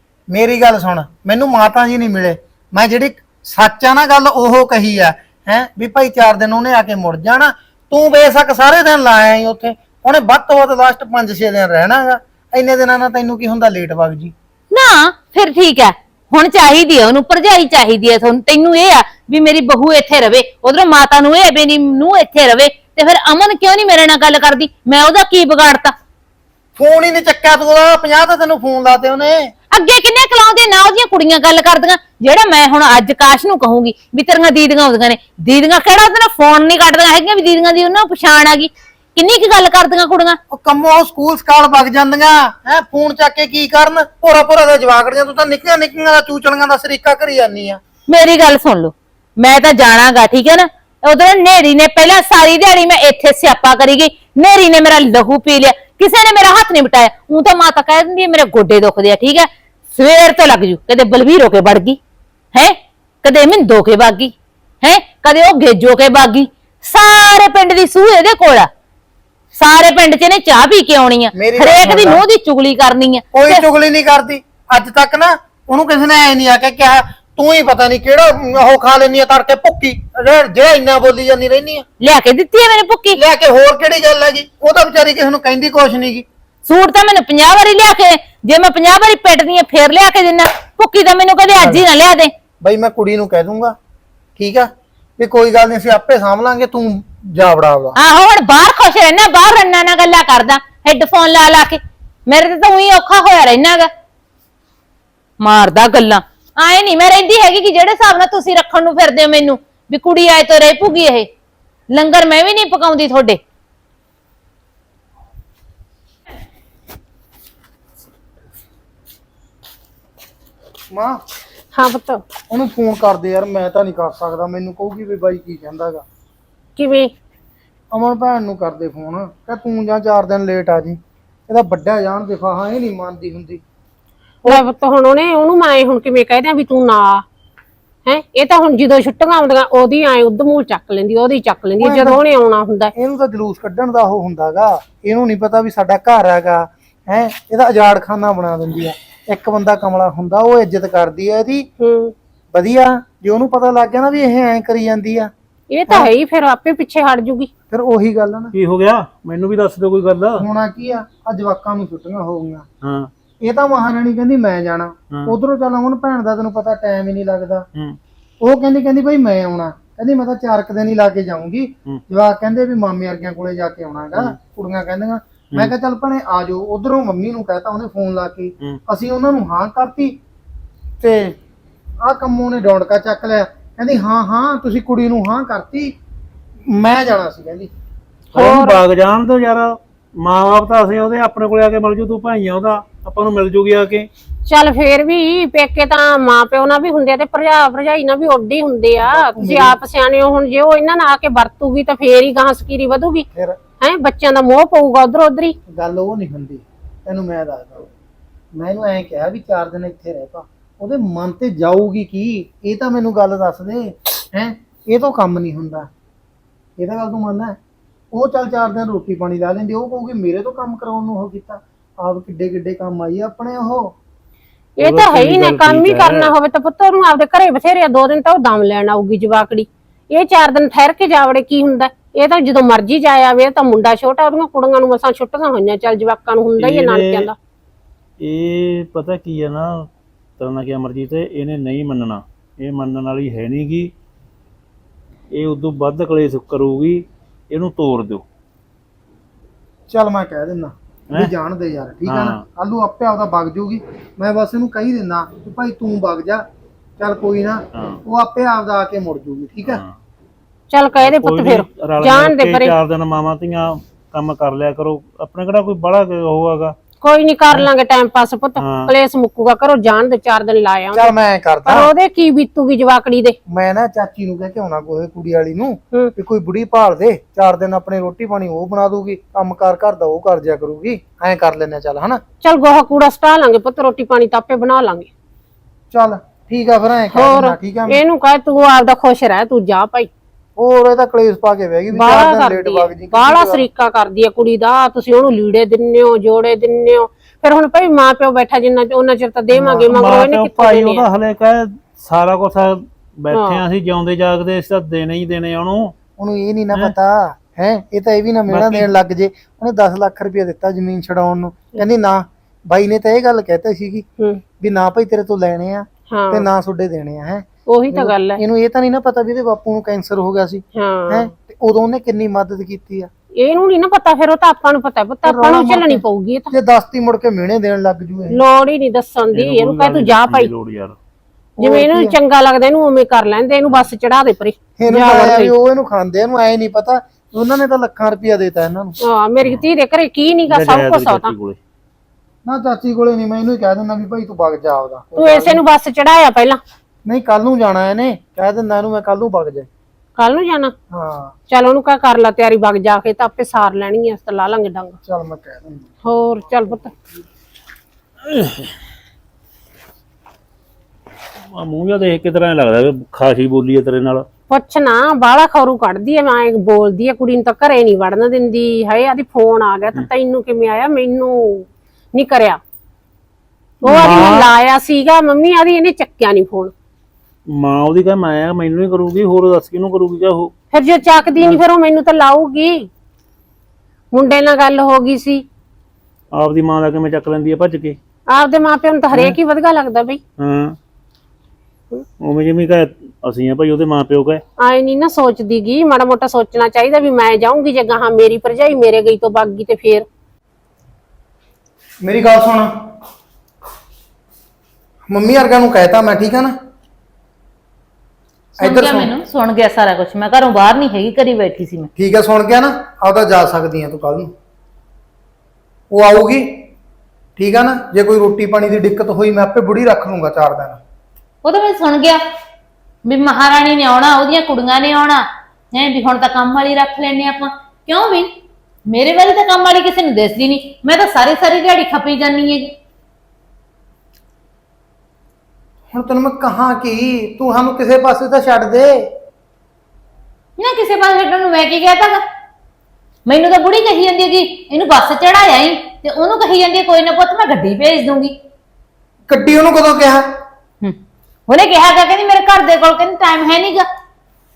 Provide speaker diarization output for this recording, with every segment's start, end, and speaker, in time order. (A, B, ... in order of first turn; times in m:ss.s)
0:00.3-0:14.3 A
0:14.7-0:26.0 B
0:26.8-0:29.5 A
0:29.7-0:40.4 B
0:40.5-0:47.8 A
0:48.1-1:02.0 B
1:02.5-1:08.7 B
1:09.6-1:13.6 B
1:11.4-1:12.2 A
1:13.3-1:21.9 A
1:22.0-1:23.2 B
1:23.1-1:26.3 A
1:26.7-1:32.3 B
1:31.6-1:31.8 A
1:32.6-1:33.8 A
1:34.4-1:38.0 A
1:38.0-1:43.9 B
1:45.4-1:51.3 B
1:51.9-1:53.4 B
2:00.9-2:01.2 A
2:01.7-2:02.2 C
2:02.5-2:06.1 A
2:06.8-2:07.1 C
2:07.9-2:13.6 A
2:14.4-2:17.2 C
2:18.1-2:22.9 C
2:21.8-2:22.2 A
2:23.0-2:31.7 A
2:31.8-2:32.1 C
2:32.5-2:35.3 A
2:35.7-2:37.5 C
2:37.7-2:38.5 A
2:38.5-2:40.4 D
2:40.4-2:42.7 A
2:42.8-2:43.1 D
2:43.4-2:47.7 A
2:48.4-3:00.2 A
3:01.0-3:01.4 A
3:02.0-3:06.0 A
3:06.7-3:07.7 A
3:08.3-3:14.1 D
3:08.3-3:08.8 C
3:14.5-3:23.3 C
3:19.1-3:19.8 A
3:23.3-3:23.6 A
3:23.8-3:25.6 C
3:25.7-3:27.9 A
3:28.6-3:35.9 A
3:36.8-3:37.6 A
3:38.1-3:44.0 A
3:44.8-3:57.4 C
3:44.8-3:46.3 D
3:56.6-3:57.3 D
3:58.2-4:03.9 D
4:05.3-4:08.2 D
4:09.9-4:16.5 A
4:12.1-4:12.4 D
4:17.0-4:19.8 A
4:17.7-4:18.0 D
4:19.6-4:20.0 D
4:20.7-4:22.8 C
4:21.0-4:26.8 D
4:27.0-4:31.1 C
4:28.6-4:28.9 D
4:30.9-4:31.9 A
4:31.7-4:33.4 C
4:33.5-4:42.2 A
4:42.4-4:45.1 C
4:45.9-4:48.0 A
4:47.1-4:50.1 C
4:50.6-4:53.7 A
4:51.9-5:01.0 C
4:59.6-5:05.9 D
5:03.3-5:03.6 C
5:06.2-5:14.0 A
5:08.5-5:08.9 D
5:14.6-5:23.1 A
5:16.1-5:16.5 C
5:17.7-5:18.4 C
5:20.8-5:21.3 C
5:23.4-5:26.5 C
5:25.2-5:28.4 A
5:28.3-5:30.5 C
5:29.3-5:31.0 D
5:31.6-5:32.2 A
5:31.6-5:35.5 C
5:34.8-5:39.0 A
5:39.0-5:41.3 C
5:40.5-5:41.6 D
5:42.4-5:45.6 A
5:45.2-5:46.6 C
5:47.1-5:49.7 A
5:50.2-5:50.7 C
5:50.9-5:51.4 A
5:51.5-5:55.0 C
5:55.0-5:55.9 A
5:56.0-5:56.9 C
5:58.2-5:58.7 D
6:01.5-6:04.2 D
6:04.5-6:12.6 C
6:13.8-6:16.7 C
6:13.9-6:14.5 D
6:13.9-6:14.2 A
6:17.5-6:20.5 D
6:20.7-6:22.9 C
6:24.1-6:25.4 C
6:26.4-6:28.0 D
6:28.3-6:30.2 C
6:29.1-6:29.4 D
6:30.4-6:30.8 D
6:32.2-6:34.4 D
6:34.6-6:40.1 C
6:42.0-6:42.8 A
6:45.1-6:46.6 A
6:48.6-6:51.9 B
6:48.6-6:49.1 A
6:52.0-6:54.3 A
6:55.9-6:56.7 A
6:57.4-7:00.8 A
7:01.4-7:02.2 B
7:03.1-7:08.3 B
7:08.9-7:12.7 B
7:15.9-7:19.1 A
7:20.6-7:22.2 B
7:23.3-7:28.3 B
7:29.3-7:30.3 A
7:31.5-7:33.9 B